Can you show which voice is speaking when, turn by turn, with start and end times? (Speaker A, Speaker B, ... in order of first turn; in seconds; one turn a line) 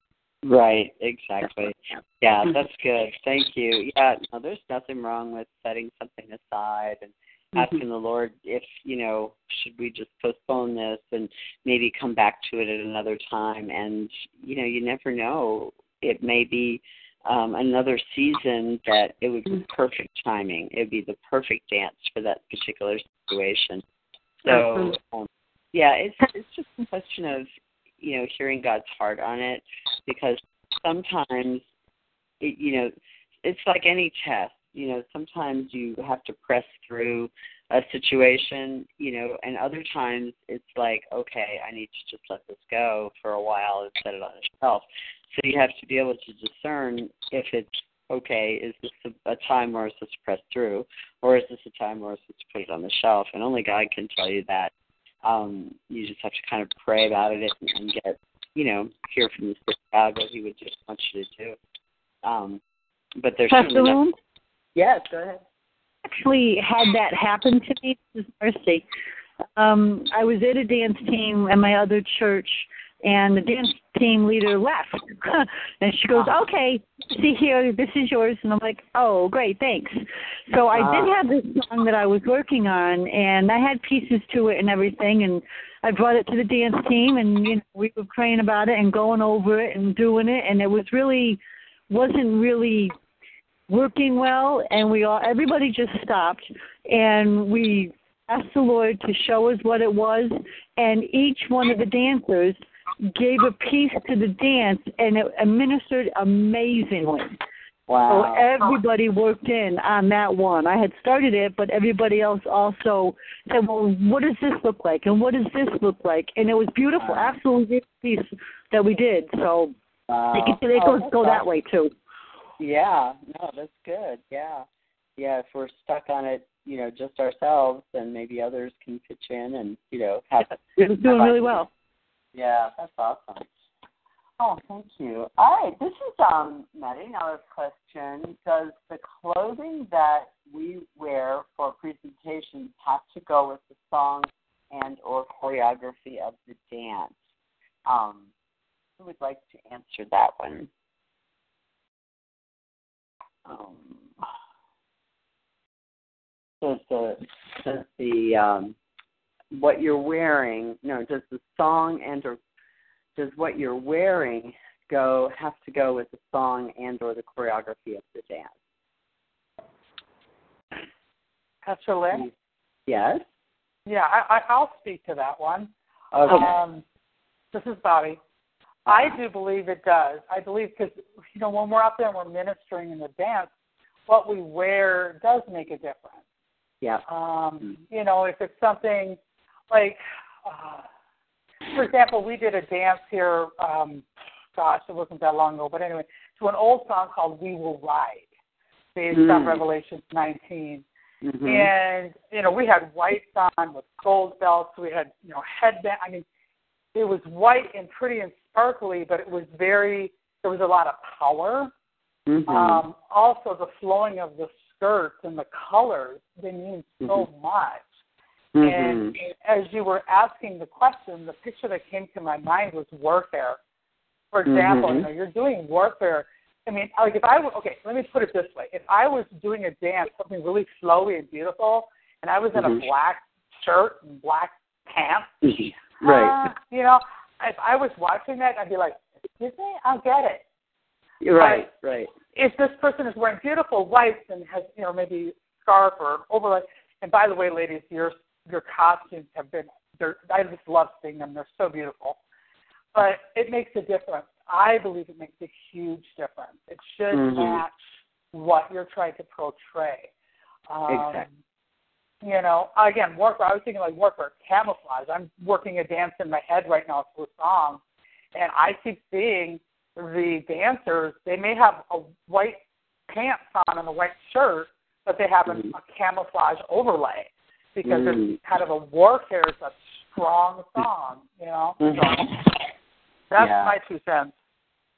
Speaker A: 0.4-23.8
Speaker A: 24.4-27.5
Speaker A: 28.0-31.6
Speaker A: 32.4-32.9
Speaker A: 33.4-54.7
Speaker A: 55.2-61.6
Speaker A: 62.2-62.6
Speaker A: 63.2-64.0
Speaker B: 63.5-64.2
Speaker A: 64.8-65.4
Speaker B: 66.1-68.8
Speaker B: 69.6-93.0
Speaker A: 80.8-81.1
Speaker B: 93.7-102.6
Speaker B: 103.1-107.4
Speaker A: 107.9-108.5
Speaker B: 108.1-119.7
Speaker A: 117.0-117.3
Speaker A: 120.1-121.5
Speaker B: 120.3-121.9
Speaker A: 122.6-124.7
Speaker A: 125.2-131.7
Speaker B: 130.8-131.7
Speaker A: 132.3-133.4
Speaker A: 134.4-147.2
Speaker A: 147.9-148.3
Speaker A: 149.0-150.7
Speaker A: 153.4-154.1
Speaker A: 156.6-158.8
Speaker A: 159.5-162.4
Speaker A: 163.2-168.5
Speaker C: 171.6-172.3
Speaker A: 172.9-173.2
Speaker C: 173.9-175.7
Speaker A: 176.1-176.6
Speaker C: 176.2-176.8
Speaker C: 177.5-178.2
Speaker A: 178.9-179.2
Speaker C: 178.9-183.5
Speaker C: 184.1-186.2
Speaker C: 187.1-189.2
Speaker C: 189.7-190.8
Speaker C: 191.7-198.3
Speaker C: 198.9-200.8
Speaker A: 199.1-199.6
Speaker A: 201.2-201.7
Speaker C: 201.4-206.2
Speaker C: 206.9-211.7
Speaker A: 212.3-212.8
Speaker C: 212.5-217.9
Speaker A: 218.6-219.2
Speaker C: 218.6-223.6
Speaker C: 224.3-240.4
Speaker A: 224.5-225.1
Speaker A: 232.6-232.8
Speaker A: 235.4-236.5
Speaker A: 241.2-242.1
Speaker C: 241.4-241.7
Speaker C: 242.3-252.2
Speaker C: 252.9-257.7
Speaker A: 257.1-257.6
Speaker C: 258.3-260.1
Speaker C: 260.7-261.3
Speaker A: 260.9-261.3
Speaker C: 262.2-267.8
Speaker C: 268.4-282.4
Speaker A: 277.9-278.4
Speaker A: 281.8-282.2
Speaker C: 283.3-284.3
Speaker A: 283.4-283.7